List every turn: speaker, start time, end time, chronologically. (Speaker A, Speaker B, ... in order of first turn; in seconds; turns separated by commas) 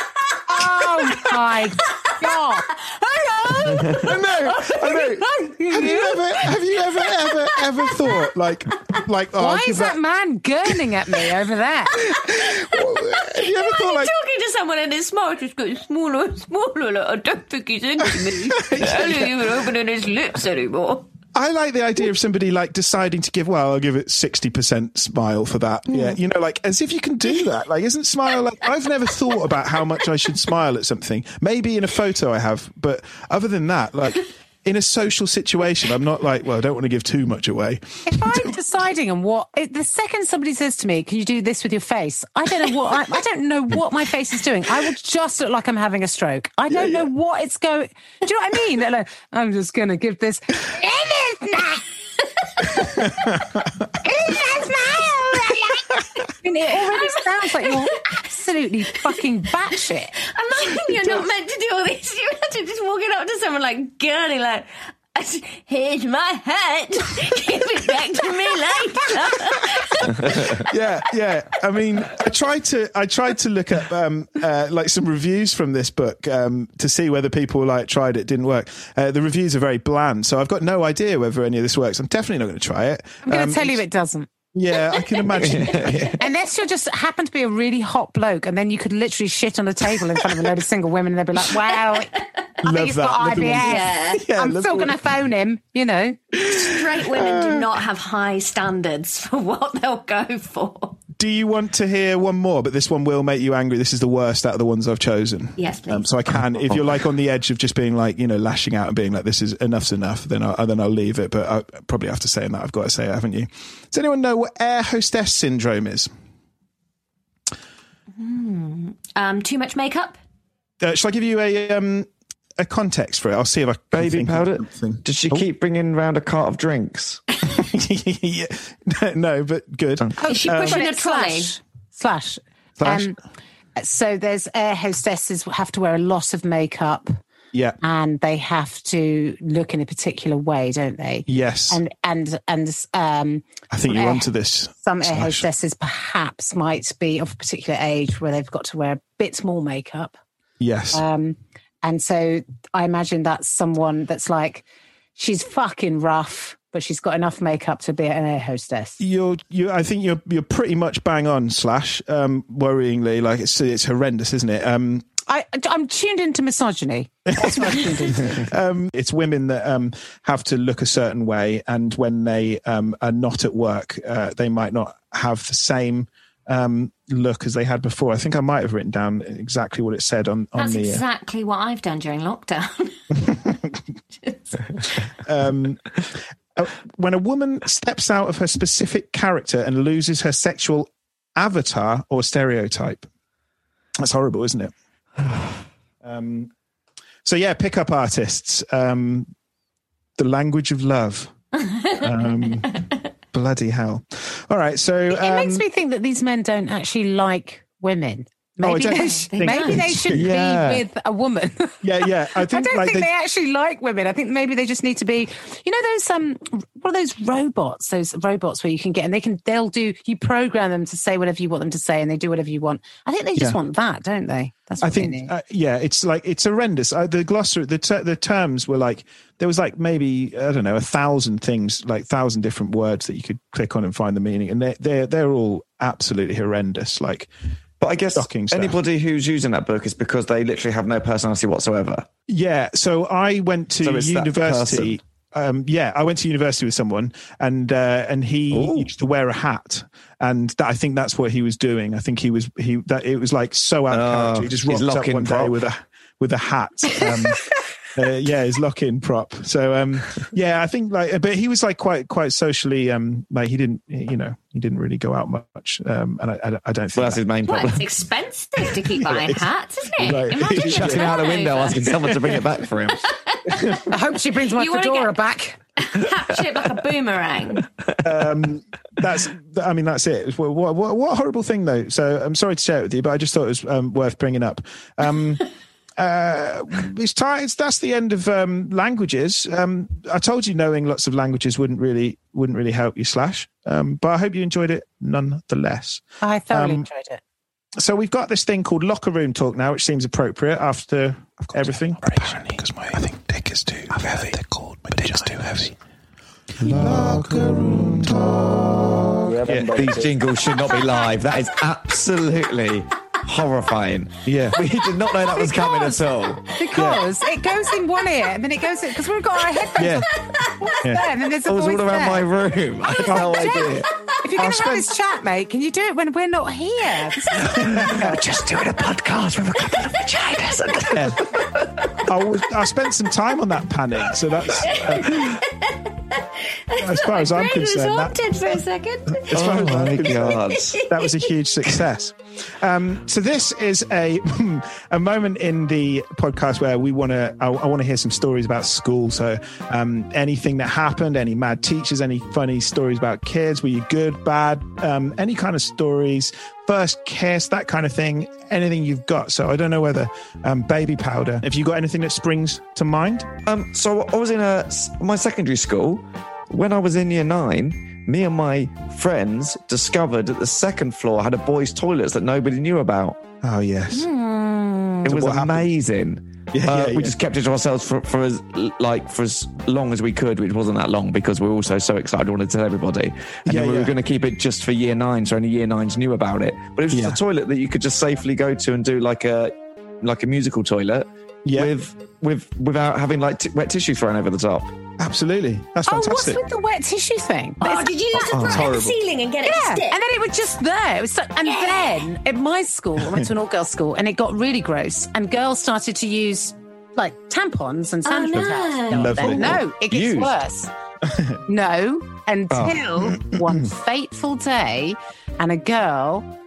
Speaker A: 0.5-2.7, Speaker B: 2.7-5.3, Speaker C: 3.8-10.0, Speaker A: 5.4-6.2, Speaker B: 6.9-7.9, Speaker A: 9.4-11.9, Speaker C: 12.0-14.1, Speaker B: 12.3-21.1, Speaker C: 18.6-19.4, Speaker C: 21.3-38.5, Speaker B: 25.9-26.1, Speaker A: 38.0-51.8, Speaker A: 52.6-53.1, Speaker A: 54.0-60.1, Speaker B: 60.2-70.7, Speaker C: 70.2-83.8, Speaker A: 83.2-84.3, Speaker C: 84.5-86.1, Speaker D: 85.3-86.2, Speaker A: 86.2-92.1, Speaker C: 92.6-95.0, Speaker A: 92.6-96.2, Speaker B: 93.6-94.2, Speaker C: 96.3-97.7, Speaker B: 96.4-101.0, Speaker C: 101.2-116.1, Speaker B: 105.6-106.1, Speaker B: 118.2-120.2, Speaker C: 120.8-125.5, Speaker D: 123.9-127.2, Speaker C: 127.4-130.8, Speaker A: 130.2-133.2, Speaker B: 130.3-131.5, Speaker C: 132.8-133.1, Speaker A: 133.8-137.2, Speaker A: 137.8-144.3, Speaker C: 141.3-141.8, Speaker C: 143.7-145.5, Speaker A: 144.8-150.2, Speaker C: 150.6-151.0, Speaker A: 150.9-154.6, Speaker A: 155.2-159.0, Speaker C: 159.0-165.1, Speaker A: 165.3-168.5, Speaker C: 167.3-181.0, Speaker B: 180.6-183.5, Speaker B: 184.2-184.9, Speaker C: 185.2-193.1, Speaker C: 194.0-194.7, Speaker C: 196.0-196.5, Speaker C: 197.2-199.3, Speaker C: 200.2-201.3, Speaker B: 201.6-202.8, Speaker C: 201.9-205.6, Speaker A: 205.1-225.3, Speaker C: 208.6-210.3, Speaker B: 208.9-209.8, Speaker D: 210.1-210.8, Speaker C: 211.8-213.1, Speaker C: 224.8-237.3, Speaker D: 237.8-242.1, Speaker C: 238.1-238.8, Speaker C: 242.3-267.2, Speaker D: 243.8-245.0, Speaker D: 248.5-248.9, Speaker D: 253.9-255.6, Speaker D: 266.9-267.9, Speaker B: 267.4-272.4, Speaker C: 269.0-269.4, Speaker C: 270.0-271.1, Speaker D: 270.4-273.1, Speaker B: 273.3-273.9, Speaker A: 273.9-275.6, Speaker B: 274.5-275.2, Speaker B: 275.8-277.7, Speaker C: 278.0-285.4, Speaker C: 286.0-296.9, Speaker A: 296.2-297.2, Speaker C: 297.8-305.8, Speaker C: 306.6-310.1, Speaker D: 306.7-307.0, Speaker D: 309.2-316.4, Speaker C: 314.2-314.6, Speaker B: 315.4-315.9, Speaker A: 316.5-322.3, Speaker C: 316.7-317.1, Speaker C: 319.8-320.1, Speaker D: 321.4-323.9, Speaker C: 323.0-323.6, Speaker A: 323.1-327.5, Speaker C: 324.4-324.9, Speaker C: 327.5-328.2, Speaker D: 327.5-331.4, Speaker C: 330.9-331.3, Speaker C: 332.0-335.4, Speaker B: 334.6-339.6, Speaker C: 336.7-338.2, Speaker C: 339.1-363.3, Speaker D: 339.3-340.8, Speaker B: 340.8-341.1, Speaker D: 363.4-373.2, Speaker C: 373.4-374.1, Speaker B: 373.9-375.0, Speaker C: 375.0-375.7, Speaker D: 375.0-394.7, Speaker C: 376.5-377.2, Speaker C: 383.4-383.9, Speaker C: 386.9-387.2, Speaker C: 391.4-391.7, Speaker C: 395.0-396.4, Speaker A: 395.9-397.9, Speaker B: 397.6-400.0, Speaker C: 398.1-399.0, Speaker D: 398.3-398.8, Speaker A: 399.4-410.7, Speaker B: 401.4-402.0, Speaker B: 408.1-409.1, Speaker C: 408.4-409.6, Speaker D: 409.1-410.4, Speaker C: 411.0-411.4, Speaker A: 411.5-416.3, Speaker D: 412.5-412.8, Speaker C: 413.0-413.6